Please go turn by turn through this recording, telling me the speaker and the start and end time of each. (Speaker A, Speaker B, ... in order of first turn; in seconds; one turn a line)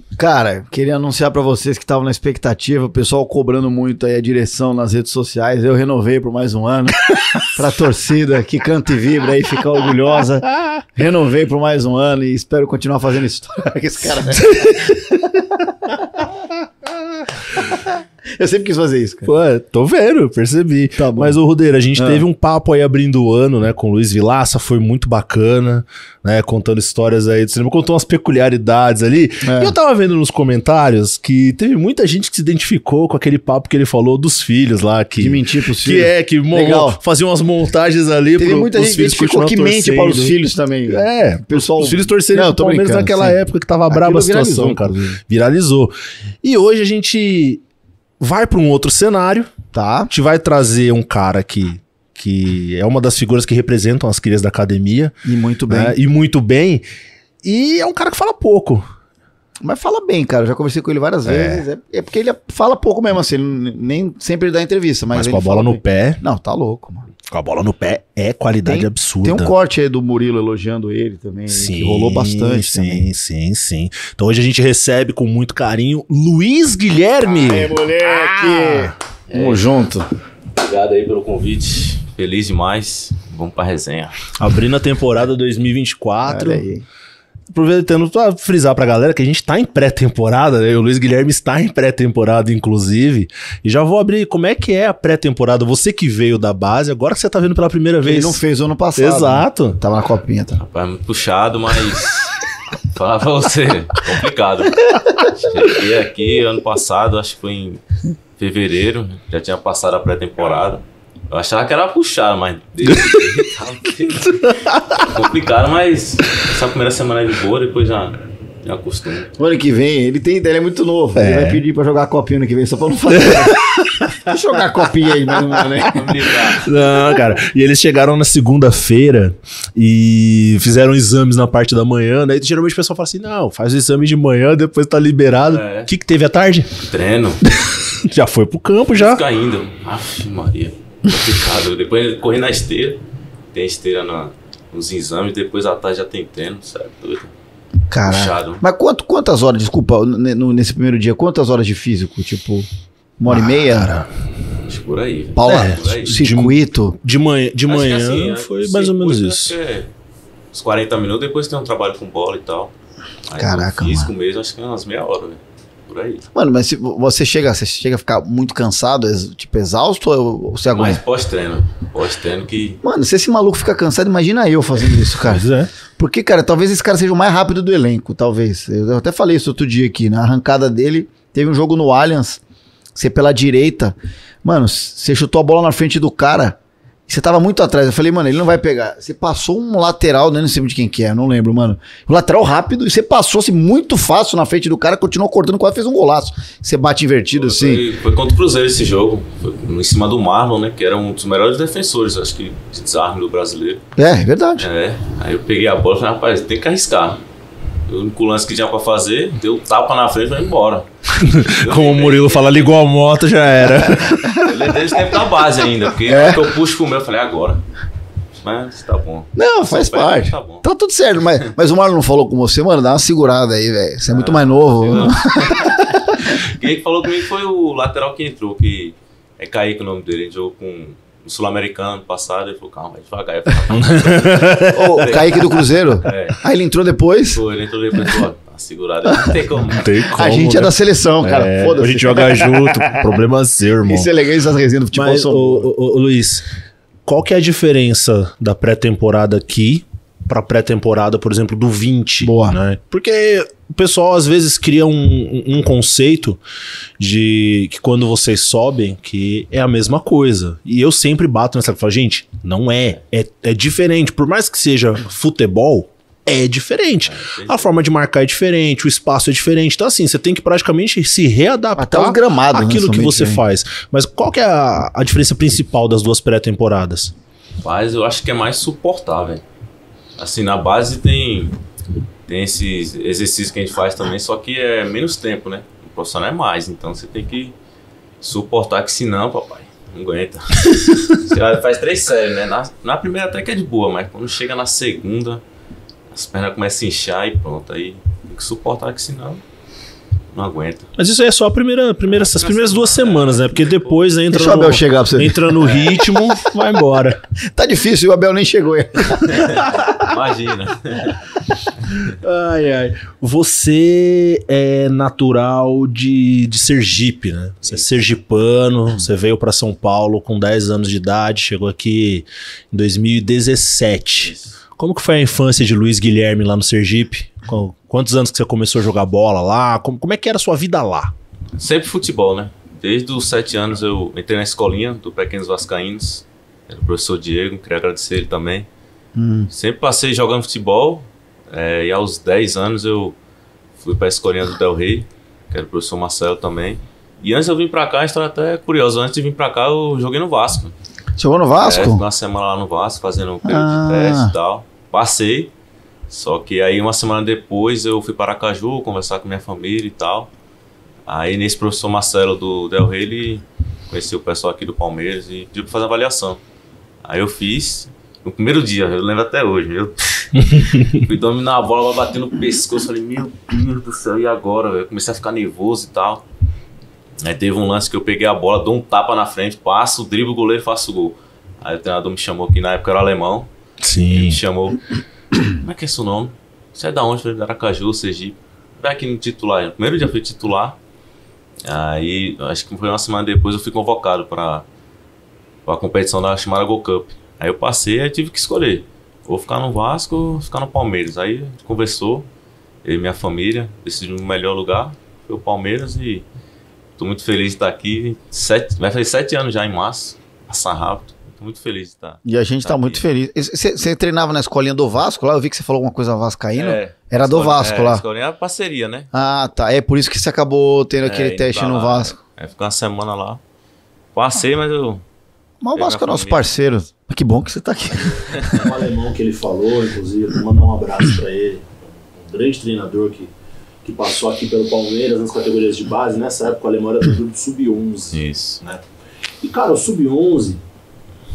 Speaker A: 0.2-15.4
Speaker B: 14.4-15.2
Speaker A: 17.6-19.3
Speaker B: 19.2-40.4
Speaker A: 21.0-21.4
Speaker A: 21.9-22.2
Speaker A: 29.4-29.7
Speaker A: 35.2-37.0
Speaker A: 38.4-45.2
Speaker B: 40.9-47.6
Speaker B: 48.2-49.5
Speaker A: 49.7-50.1
Speaker B: 50.1-55.1
Speaker A: 55.2-56.0
Speaker B: 55.7-56.8
Speaker B: 57.4-58.9
Speaker A: 59.6-67.1
Speaker B: 61.3-61.7
Speaker B: 65.1-66.2
Speaker B: 67.3-69.5
Speaker A: 68.7-73.0
Speaker B: 71.5-79.0
Speaker A: 77.2-80.1
Speaker C: 79.3-79.6
Speaker C: 80.6-84.3
Speaker B: 84.4-86.7
Speaker A: 86.2-86.8
Speaker B: 87.5-98.4
Speaker A: 98.0-100.6
Speaker B: 99.0-99.8
Speaker C: 100.6-107.8
Speaker C: 108.4-119.3
Speaker B: 112.9-113.2
Speaker B: 114.3-115.1
Speaker A: 119.4-126.2
Speaker B: 121.2-121.6
Speaker B: 123.1-136.8
Speaker C: 125.8-126.7
Speaker C: 135.5-135.9
Speaker C: 136.8-137.4
Speaker B: 137.4-139.2
Speaker C: 138.9-143.0
Speaker C: 143.5-147.3
Speaker A: 147.9-152.7
Speaker C: 148.1-148.6
Speaker A: 153.2-154.0
Speaker B: 153.3-154.1
Speaker C: 154.6-156.2
Speaker A: 155.4-157.0
Speaker B: 155.4-159.5
Speaker C: 157.7-159.9
Speaker C: 160.5-162.7
Speaker C: 163.3-166.2
Speaker A: 163.3-164.1
Speaker A: 166.3-171.0
Speaker C: 170.7-172.8
Speaker A: 172.8-182.4
Speaker B: 175.2-175.7
Speaker A: 182.9-186.6
Speaker A: 187.1-197.8
Speaker C: 197.3-203.8
Speaker A: 204.0-204.7
Speaker C: 204.6-207.2
Speaker C: 207.9-212.7
Speaker B: 211.2-214.7
Speaker C: 214.4-217.6
Speaker A: 216.1-216.5
Speaker C: 218.4-220.7
Speaker A: 219.4-225.8
Speaker C: 224.1-236.4
Speaker B: 233.7-235.0
Speaker A: 234.7-237.4
Speaker C: 237.3-239.9
Speaker B: 239.7-244.1
Speaker A: 240.1-243.2
Speaker A: 243.8-245.7
Speaker B: 244.9-246.4
Speaker B: 247.1-256.4
Speaker A: 252.2-252.6
Speaker B: 257.0-277.1
Speaker C: 267.1-267.7
Speaker A: 271.8-273.4
Speaker C: 277.6-279.4
Speaker C: 280.2-281.6
Speaker C: 282.3-287.6
Speaker C: 288.2-295.4
Speaker C: 296.1-299.4
Speaker C: 300.3-300.9
Speaker B: 301.0-307.2
Speaker C: 302.2-304.0
Speaker A: 304.3-306.8
Speaker A: 307.5-309.7
Speaker C: 309.3-311.2
Speaker B: 312.0-331.1
Speaker C: 331.6-338.7
Speaker A: 339.2-339.5
Speaker C: 339.5-343.2
Speaker C: 343.8-350.8
Speaker A: 351.2-352.0
Speaker C: 351.6-355.5
Speaker A: 353.4-354.3
Speaker C: 356.1-360.3
Speaker C: 361.1-366.4
Speaker C: 367.0-376.2
Speaker B: 370.5-371.0
Speaker C: 377.2-383.5
Speaker B: 383.8-384.4
Speaker C: 384.1-384.8
Speaker C: 385.4-390.8
Speaker C: 391.6-394.7
Speaker C: 395.7-402.3
Speaker C: 402.8-406.2
Speaker C: 407.0-413.0
Speaker A: 412.2-418.0
Speaker C: 416.6-419.1
Speaker A: 419.1-422.2
Speaker C: 421.0-423.4
Speaker C: 424.1-425.0
Speaker A: 425.6-428.6
Speaker C: 425.8-426.4
Speaker B: 428.4-433.3
Speaker B: 433.8-438.9
Speaker C: 438.1-438.6
Speaker B: 439.4-440.6